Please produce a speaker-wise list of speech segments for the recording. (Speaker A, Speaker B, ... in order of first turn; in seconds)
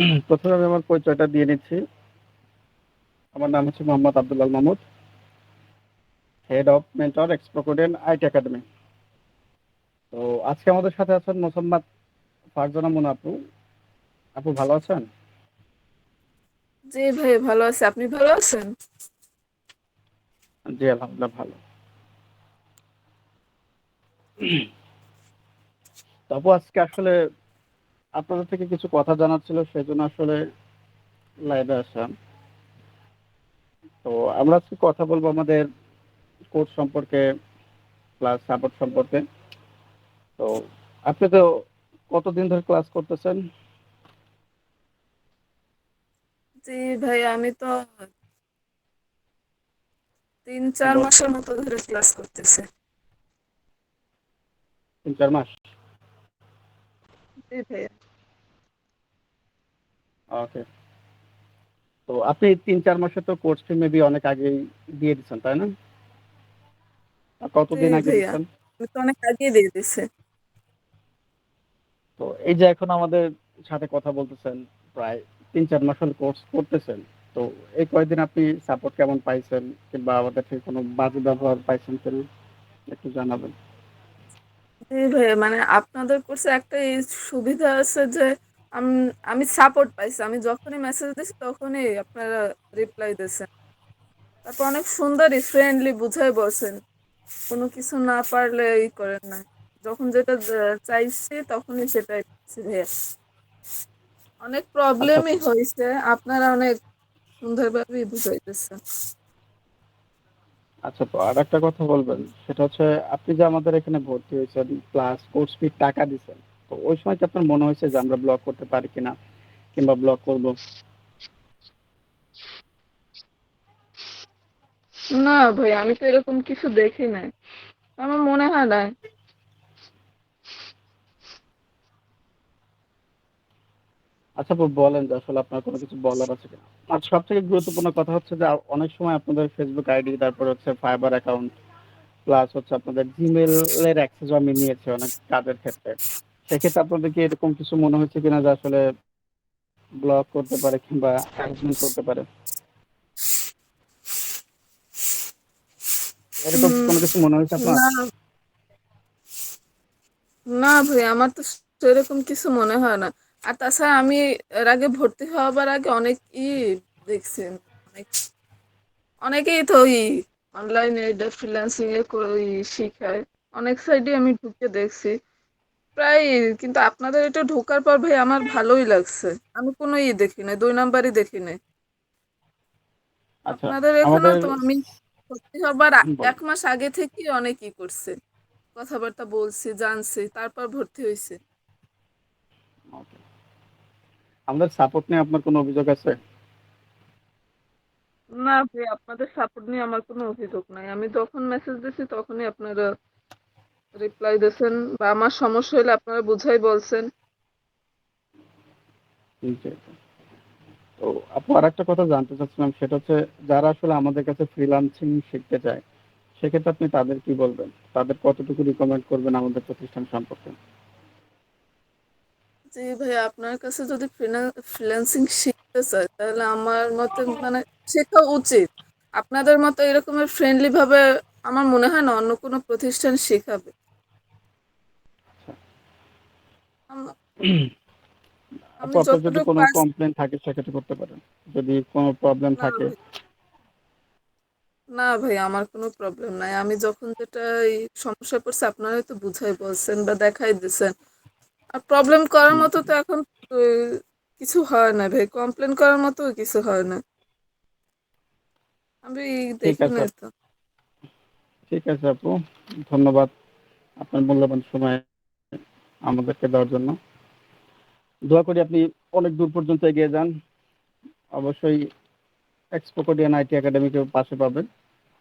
Speaker A: 0.3-1.8, 3.3-4.8, 6.5-8.6, 10.1-11.8, 12.5-13.3, 14.3-15.1, 20.7-21.6, 26.3-27.1, 28.2-30.4, 31.5-32.1, 34.0-35.6, 36.5-37.2, 38.2-39.2, 41.1-41.5, 42.1-43.4, 55.0-55.7, 60.3-60.6, 62.1-65.7, 67.4-68.4, 72.2-82.2, 82.9-83.5, 105.0-105.4, 110.9-119.1, 119.8-120.6, 134.4-141.5, 142.3-146.0, 146.5-148.8, 150.0-152.2, 156.4-157.8, 183.5-184.6, 186.1-186.3, 192.9-193.2, 194.5-196.1, 209.5-209.9, 211.0-215.8, 216.4-220.6, 238.8-242.9, 252.5-252.8, 259.6-260.1, 261.7-262.3, 262.9-263.3, 264.0-265.0, 266.1-266.9, 268.3-270.3, 271.4-271.8, 272.8-274.6
Speaker B: 16.9-18.7, 46.6-47.9, 50.5-52.6, 57.5-57.9, 67.7-70.0, 84.9-93.5, 94.5-96.8, 97.5-102.9, 104.5-106.7, 107.4-108.8, 125.2-127.3, 128.0-128.9, 156.6-156.9, 157.6-157.9, 160.5-168.1, 169.2-175.1, 176.0-181.6, 183.5-188.1, 188.8-191.4, 198.4-202.8, 204.0-207.0, 222.7-228.7, 229.2-233.7, 238.8-239.8, 242.6-242.8, 244.9-250.9, 251.8-253.7, 254.4-257.0, 259.1-260.3